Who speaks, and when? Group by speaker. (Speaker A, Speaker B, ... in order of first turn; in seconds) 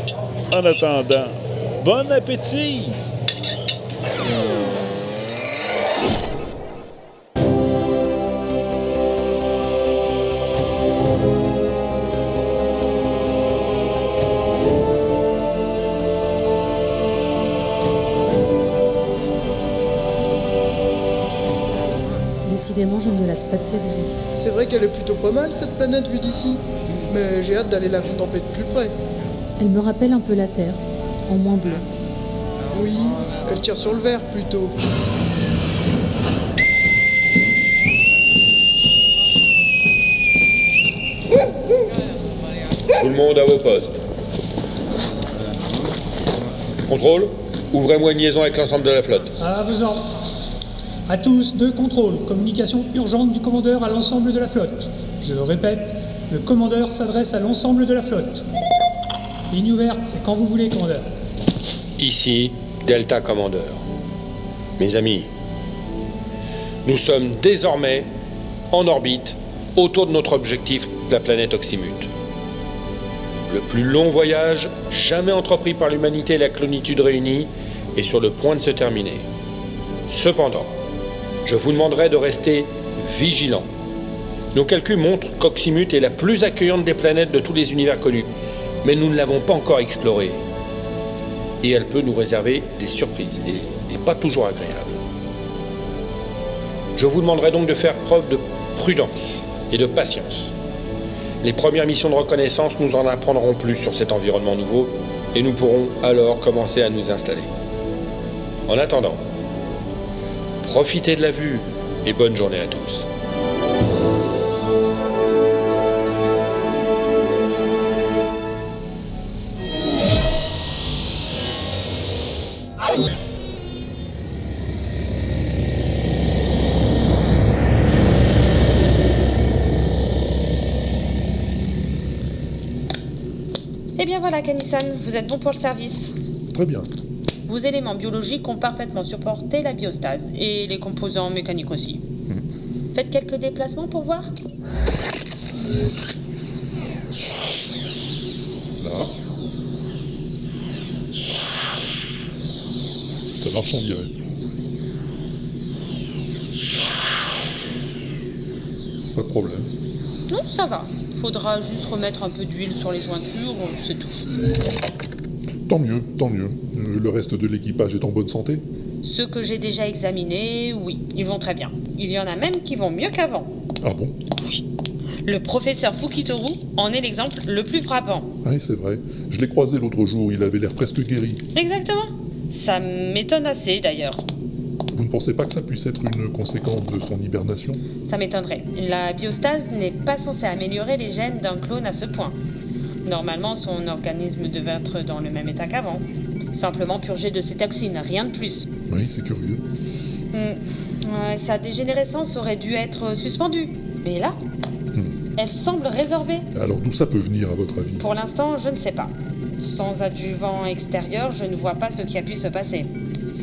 Speaker A: 0.5-3.0
Speaker B: 22.4-24.1, 29.6-31.8
Speaker C: 24.4-28.9, 32.7-34.7
Speaker D: 43.0-44.0, 46.9-49.3, 62.0-63.8, 64.8-65.3, 66.8-68.1, 68.7-72.1, 73.5-79.3, 80.1-80.7, 81.4-83.7, 84.5-88.3, 88.8-90.4, 91.6-95.0, 97.0-100.5, 101.4-107.5, 108.7-109.2, 110.6-113.1
Speaker E: 49.4-50.0, 51.1-58.4, 59.5-61.1
Speaker F: 133.9-136.1, 137.5-142.0, 142.9-144.3, 160.3-164.2, 169.0-173.5, 175.2-178.3, 181.5-184.2, 188.1-192.3, 193.0-198.7, 200.3-204.4, 205.4-206.4, 208.0-212.9
Speaker G: 136.5-136.9, 148.8-149.1, 153.4-154.1, 159.1-159.7, 165.7-168.6, 173.8-174.1, 178.4-181.4, 184.9-187.8, 198.9-199.6, 206.6-208.0